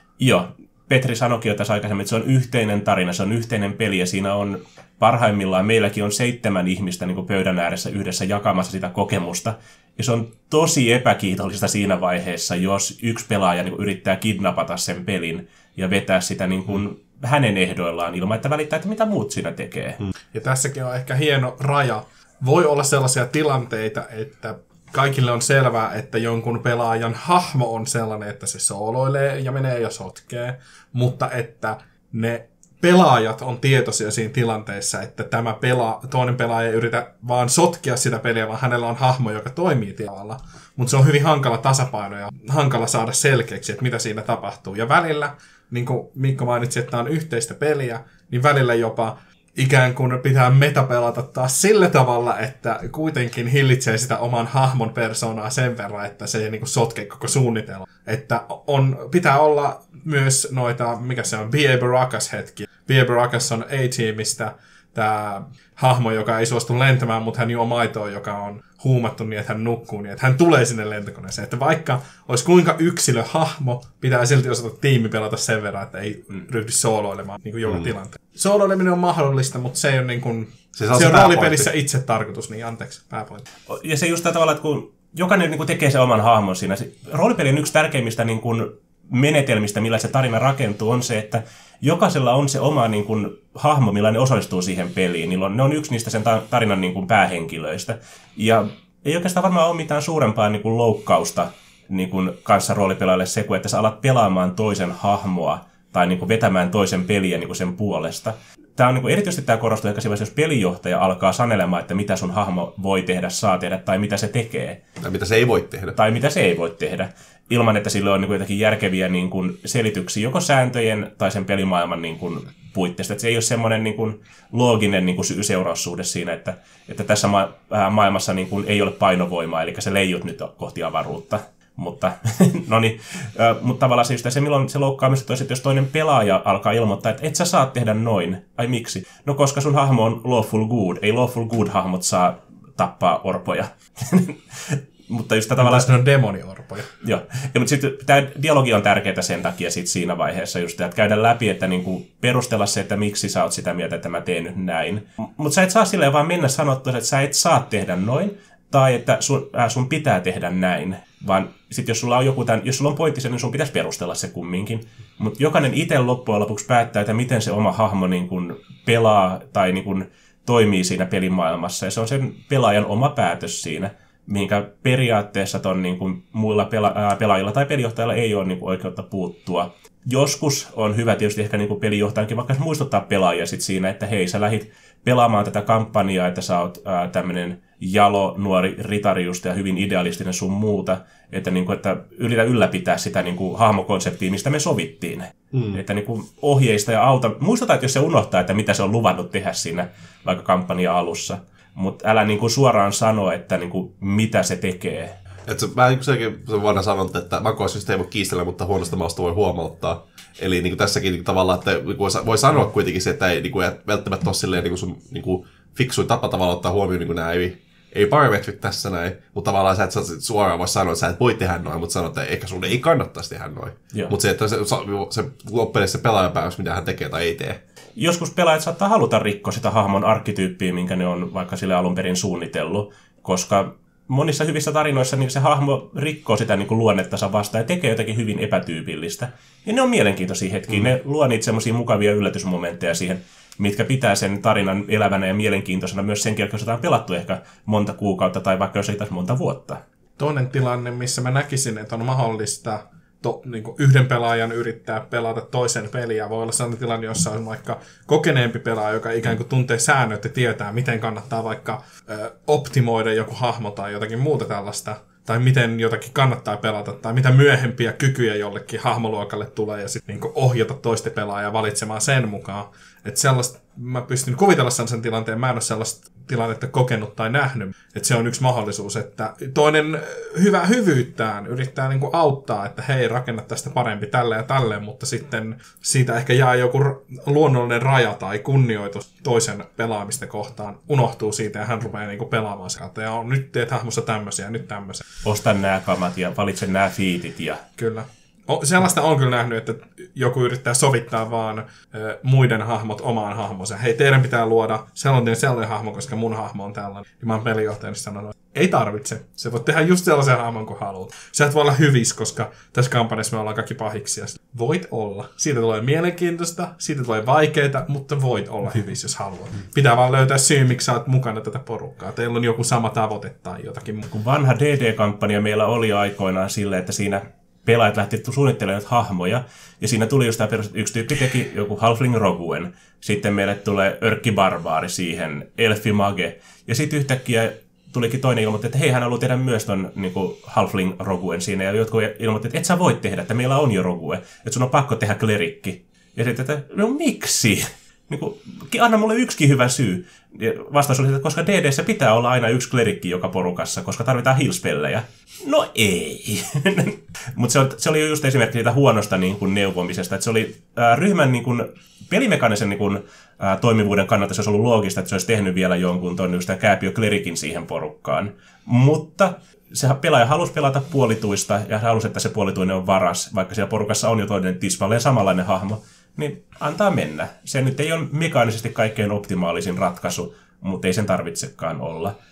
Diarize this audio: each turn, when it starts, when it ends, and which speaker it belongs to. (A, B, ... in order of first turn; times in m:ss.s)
0:00.2-0:20.0 A
0:20.3-1:23.4 B
1:20.7-1:21.7 C
1:23.7-1:54.8 A
1:55.0-1:56.0 C
1:55.9-2:25.9 A
2:25.6-2:26.9 B
2:27.0-3:25.2 A
3:15.5-3:15.8 C
3:25.5-3:47.6 C
3:48.0-4:09.8 A
4:10.2-4:55.0 B
4:55.2-4:57.6 A
4:57.8-5:24.1 B
5:24.1-6:22.2 A